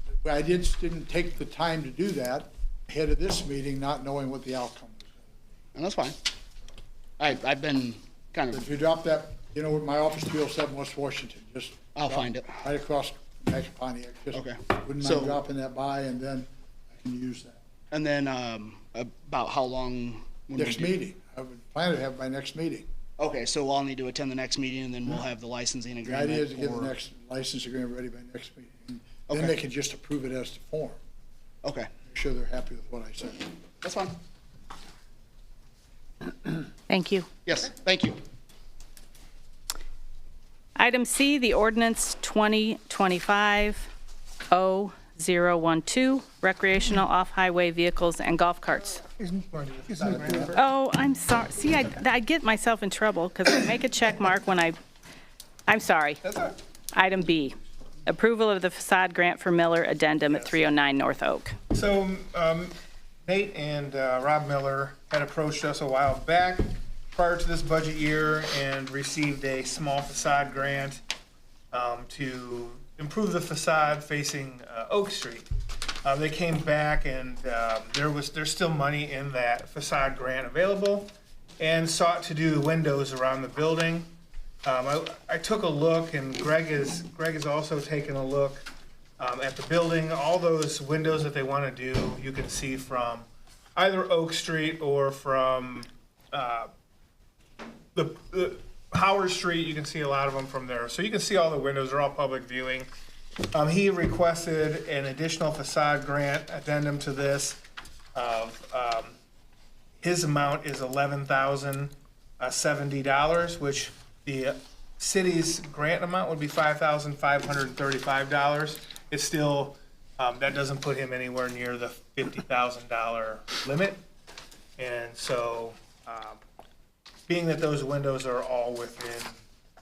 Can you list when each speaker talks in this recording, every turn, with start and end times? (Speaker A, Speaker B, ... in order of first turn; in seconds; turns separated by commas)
Speaker A: 0.2-5.1, Speaker B: 5.7-6.2, Speaker B: 7.2-8.7, Speaker A: 8.5-17.6, Speaker B: 11.9-12.6, Speaker B: 14.3-15.4, Speaker B: 17.9-21.0, Speaker A: 20.6-22.9, Speaker B: 23.2-26.9, Speaker A: 26.0-31.0, Speaker B: 31.6-31.9, Speaker A: 32.1-33.5, Speaker B: 33.8-34.1, Speaker C: 36.9-37.3, Speaker B: 37.5-38.2, Speaker C: 40.8-43.9, Speaker C: 44.5-49.0, Speaker D: 49.1-50.6, Speaker A: 50.0-50.5, Speaker C: 50.5-54.7, Speaker C: 55.7-56.2, Speaker D: 56.2-56.5, Speaker C: 56.9-57.5, Speaker C: 58.0-61.5, Speaker D: 60.3-60.5, Speaker D: 61.7-62.7, Speaker D: 63.2-71.0, Speaker D: 71.7-75.5, Speaker D: 76.0-84.1, Speaker D: 84.6-88.7, Speaker D: 89.2-96.7, Speaker D: 97.9-102.9, Speaker D: 103.5-107.6, Speaker D: 108.1-109.1, Speaker D: 110.0-124.0, Speaker D: 124.8-126.4, Speaker D: 127.3-129.4